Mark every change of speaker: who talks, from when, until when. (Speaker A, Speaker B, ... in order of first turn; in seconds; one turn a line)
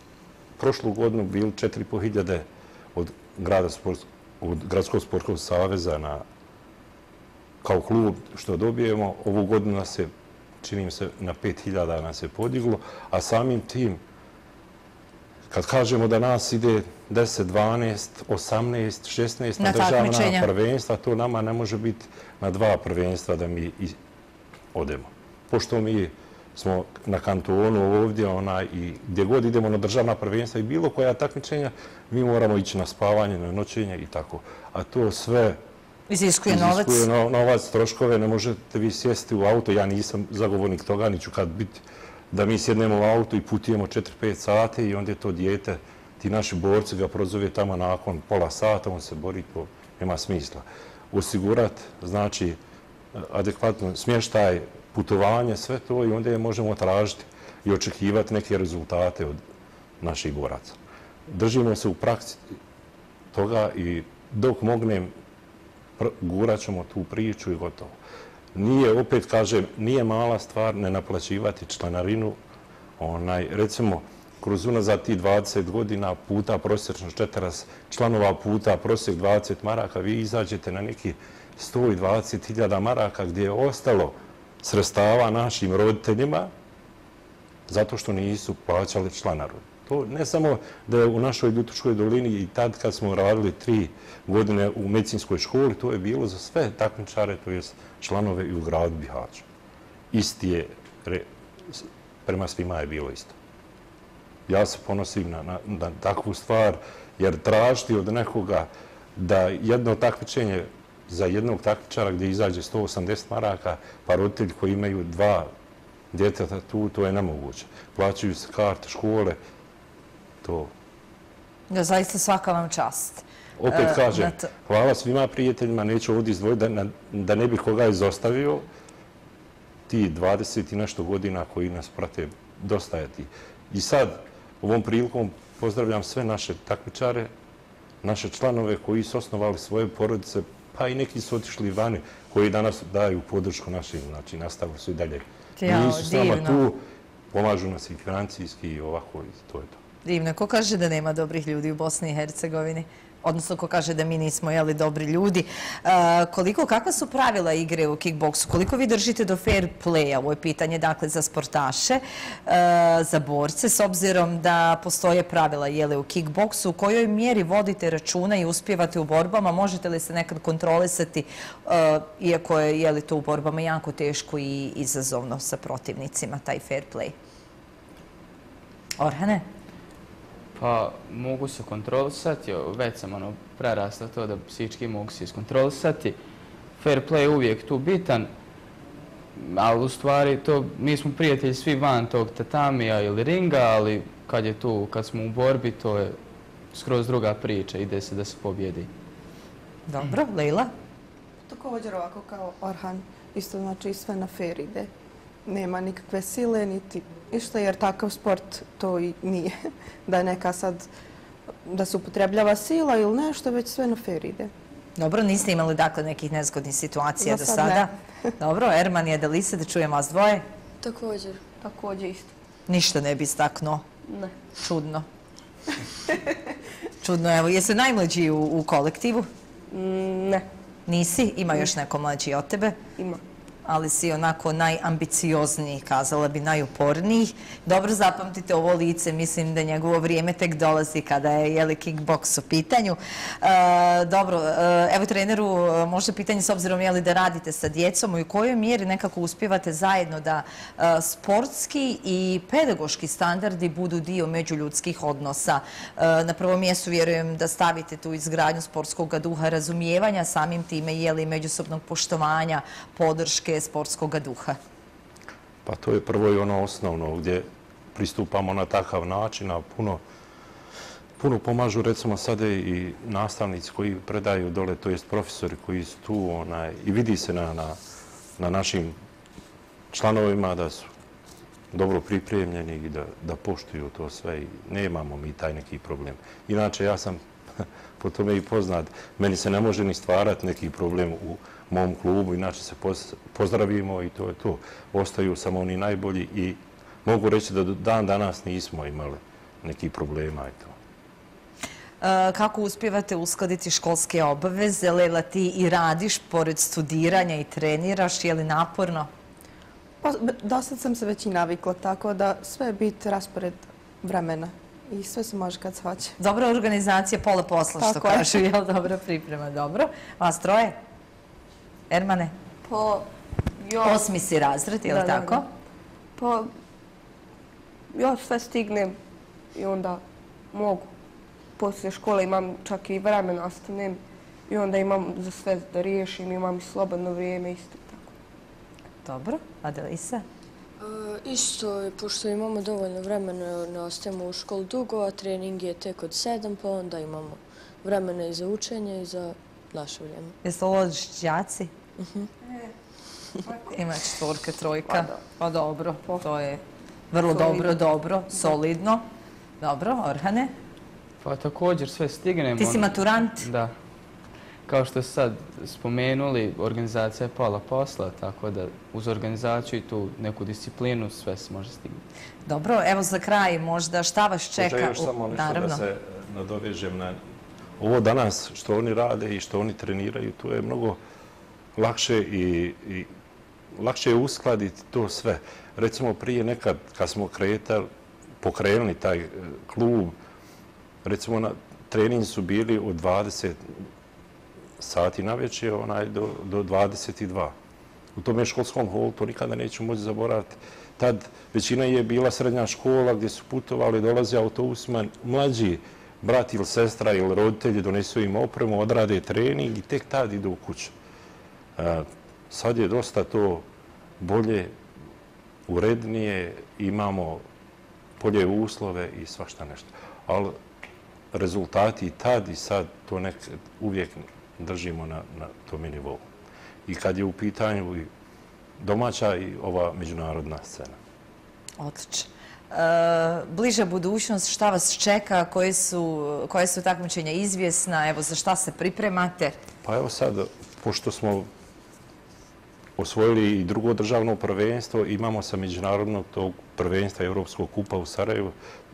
Speaker A: 0.6-6.2
Speaker A: 7.6-10.1
Speaker A: 10.6-14.0
Speaker A: 15.5-24.0
Speaker B: 19.6-20.5
Speaker A: 24.7-35.6
Speaker B: 36.1-37.1
Speaker A: 36.5-52.6
Speaker A: 53.1-59.4
Speaker A: 60.0-62.4
Speaker A: 63.3-65.1
Speaker A: 66.0-68.0
Speaker A: 68.5-72.4
Speaker A: 73.0-86.5
Speaker A: 87.7-99.5
Speaker A: 100.1-103.3
Speaker A: 104.5-115.5
Speaker A: 116.1-119.4
Speaker A: 120.4-120.7
Speaker B: 121.7-124.5
Speaker A: 123.6-128.7
Speaker A: 129.9-137.3
Speaker A: 138.0-149.8
Speaker B: 145.6-146.6
Speaker B: 150.0-177.1
Speaker B: 179.0-179.4
Speaker C: 180.5-186.2
Speaker C: 186.8-188.3
Speaker C: 189.3-196.2
Speaker C: 196.7-198.9
Speaker B: 199.9-200.7
Speaker D: 201.5-204.9
Speaker D: 205.4-210.9
Speaker D: 211.6-214.5
Speaker B: 215.0-220.4
Speaker D: 217.2-217.9
Speaker E: 220.8-221.4
Speaker F: 221.6-222.3
Speaker B: 222.7-223.8
Speaker F: 224.1-224.3
Speaker B: 224.6-225.1
Speaker B: 227.0-229.3
Speaker F: 229.7-230.4
Speaker B: 230.9-232.8
Speaker B: 233.7-264.6
Speaker A: 265.6-270.0
Speaker A: 271.2-277.8
Speaker A: 278.4-278.9
Speaker A: 279.9-280.9
Speaker A: 281.7-300.8
Speaker B: 302.0-309.1
Speaker D: 310.0-316.1
Speaker B: 316.2-320.8
Speaker D: 317.8-318.3
Speaker B: 321.9-322.3
Speaker F: 322.6-324.0
Speaker B: 323.8-325.5
Speaker F: 324.9-325.4
Speaker F: 326.1-326.5
Speaker F: 327.9-328.9
Speaker F: 329.5-330.9
Speaker F: 331.6-338.1
Speaker B: 339.0-340.2
Speaker E: 340.8-350.3
Speaker B: 350.4-351.7
Speaker E: 352.0-352.3
Speaker B: 353.4-359.1
Speaker F: 354.9-355.2
Speaker F: 357.3-357.7
Speaker B: 359.6-360.5
Speaker C: 361.2-363.7
Speaker B: 362.6-363.4
Speaker C: 364.7-372.0
Speaker B: 372.4-375.8
Speaker A: 374.6-377.2
Speaker A: 377.8-381.0
Speaker A: 381.8-383.1
Speaker A: 383.7-387.9
Speaker A: 388.4-390.1
Speaker A: 391.0-393.8
Speaker A: 394.8-397.5
Speaker A: 398.1-410.9
Speaker A: 411.8-413.6
Speaker A: 414.2-414.7
Speaker A: 415.7-417.4
Speaker A: 418.2-420.6
Speaker A: 421.3-426.2
Speaker A: 426.9-428.1
Speaker A: 428.8-431.0
Speaker B: 431.8-439.6
Speaker A: 439.8-441.5
Speaker A: 443.0-448.5